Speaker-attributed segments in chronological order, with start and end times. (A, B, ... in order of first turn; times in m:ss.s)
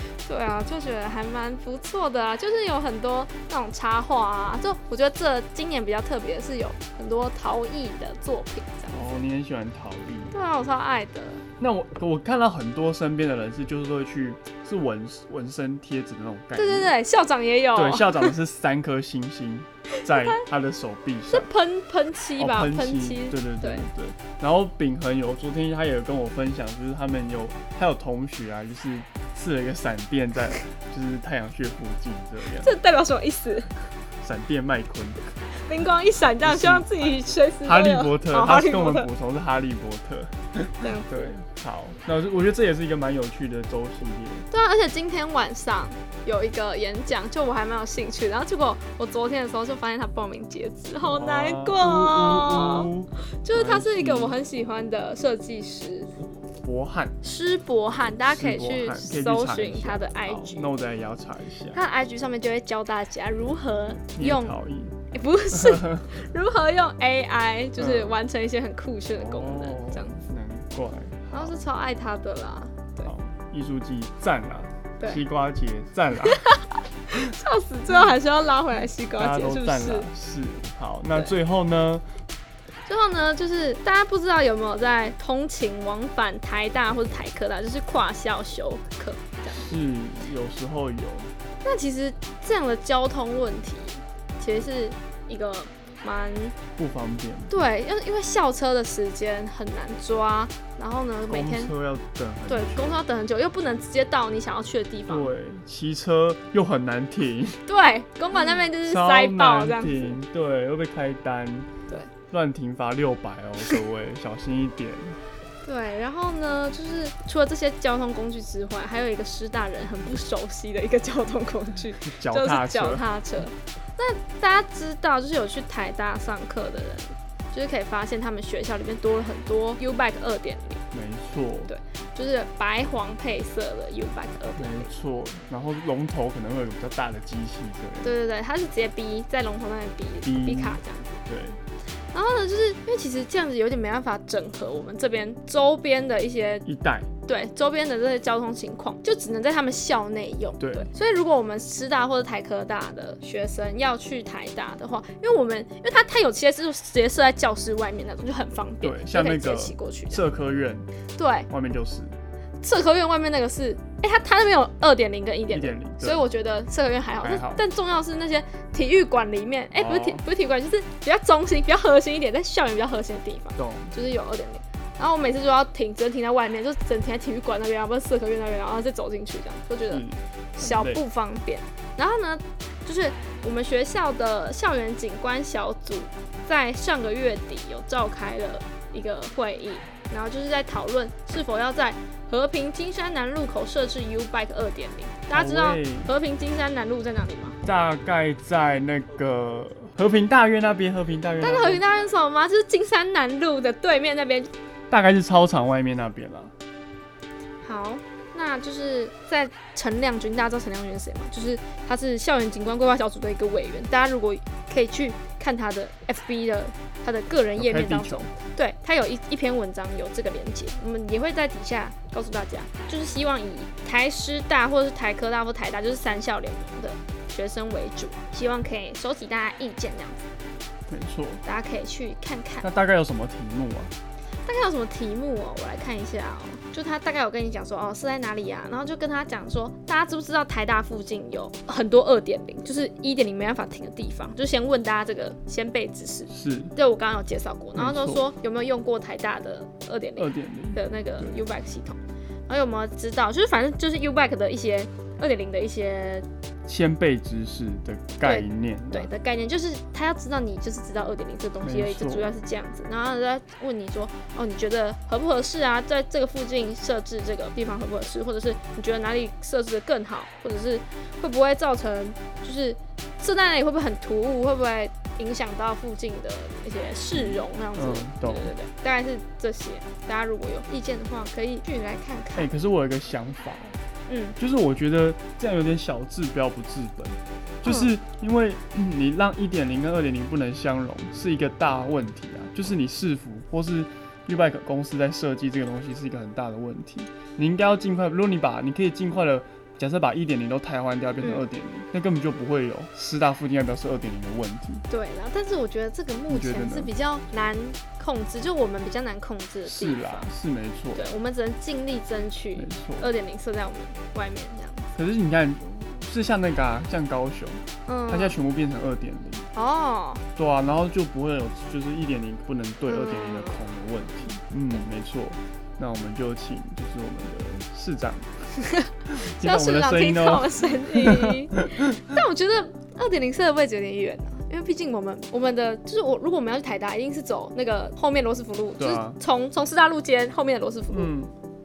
0:00.2-0:09.0 A
0:08.9-0:10.3 B
0:10.3-0:11.4 A
0:11.6-0:16.9 B
0:16.6-0:18.3 A
0:17.7-0:21.5 B
0:20.1-0:20.4 A
0:21.3-0:23.9 A
0:22.4-0:32.7 B
0:32.6-0:33.7 A
0:34.2-0:35.4 B
0:35.6-0:39.1 A
0:36.4-0:36.9 B
0:37.6-0:44.5 B
0:40.8-0:41.3 A
0:44.5-0:52.9 A
0:51.0-0:54.3 B
0:53.4-0:56.1 A
0:56.6-0:57.2 B
0:57.2-1:00.7 A
0:58.2-1:01.8 B
1:01.7-1:04.6 A
1:04.1-1:05.0 B
1:05.1-1:10.2 A
1:05.5-1:06.0 B
1:07.8-1:08.2 B
1:09.1-1:11.6 B
1:11.3-1:13.1 A
1:13.0-1:16.4 B
1:16.2-1:20.1 A
1:19.2-1:22.0 B
1:22.8-1:29.7 A
1:29.5-1:31.3 B
1:31.6-1:36.6 A
1:36.8-1:37.6 B
1:37.5-1:41.7 A
1:41.3-1:43.0 B
1:42.5-1:45.3 A
1:45.1-1:47.6 B
1:47.6-1:50.2 A
1:48.4-1:51.7 B
1:52.3-1:55.2 B
1:55.6-2:10.8 A
2:02.0-2:03.0 B
2:10.9-2:11.7 B
2:11.7-2:14.9 A
2:14.5-2:18.1 B
2:18.0-2:21.2 A
2:20.2-2:21.6 B
2:22.1-2:26.6 A
2:26.6-2:27.1 B
2:27.2-2:40.2 A
2:30.6-2:30.9 B
2:38.8-2:40.8 B
2:41.2-2:41.5 A
2:41.5-2:42.1 B
2:42.6-3:00.0 A
2:45.5-2:46.2 B
2:47.2-2:47.6 B
2:49.7-2:50.2 B
2:53.6-2:53.9 B
2:59.9-3:01.0 B
3:00.6-3:17.6 A
3:15.3-3:16.1 B
3:17.6-3:21.8 B
3:21.4-3:24.5 A
3:24.9-3:26.5 B
3:27.6-3:50.3 A
3:37.5-3:38.3 B
3:50.9-3:51.4 B
3:51.4-3:52.7 A
3:52.6-3:53.9 B
3:54.4-4:16.3 A
4:06.3-4:06.7 B
4:07.8-4:08.3 B
4:10.2-4:11.3 B
4:16.7-4:19.1 B
4:18.2-4:42.5 A
4:21.6-4:22.3 B
4:37.1-4:38.5 B
4:42.3-4:43.8 B
4:44.1-4:44.4 A
4:44.4-5:04.8 B
4:47.6-4:47.9 A
5:01.2-5:01.5 A
5:04.9-5:10.3 A
5:06.3-5:06.9 B
5:09.6-5:11.2 B
5:10.9-5:14.9 A
5:12.6-5:13.1 B
5:14.9-5:19.5 B
5:17.8-5:18.4 A
5:19.5-5:20.2 A
5:20.4-5:28.5 B
5:22.9-5:24.8 A
5:28.8-5:41.1 A
5:29.1-5:31.6 B
5:38.8-5:39.2 B
5:40.9-5:41.3 B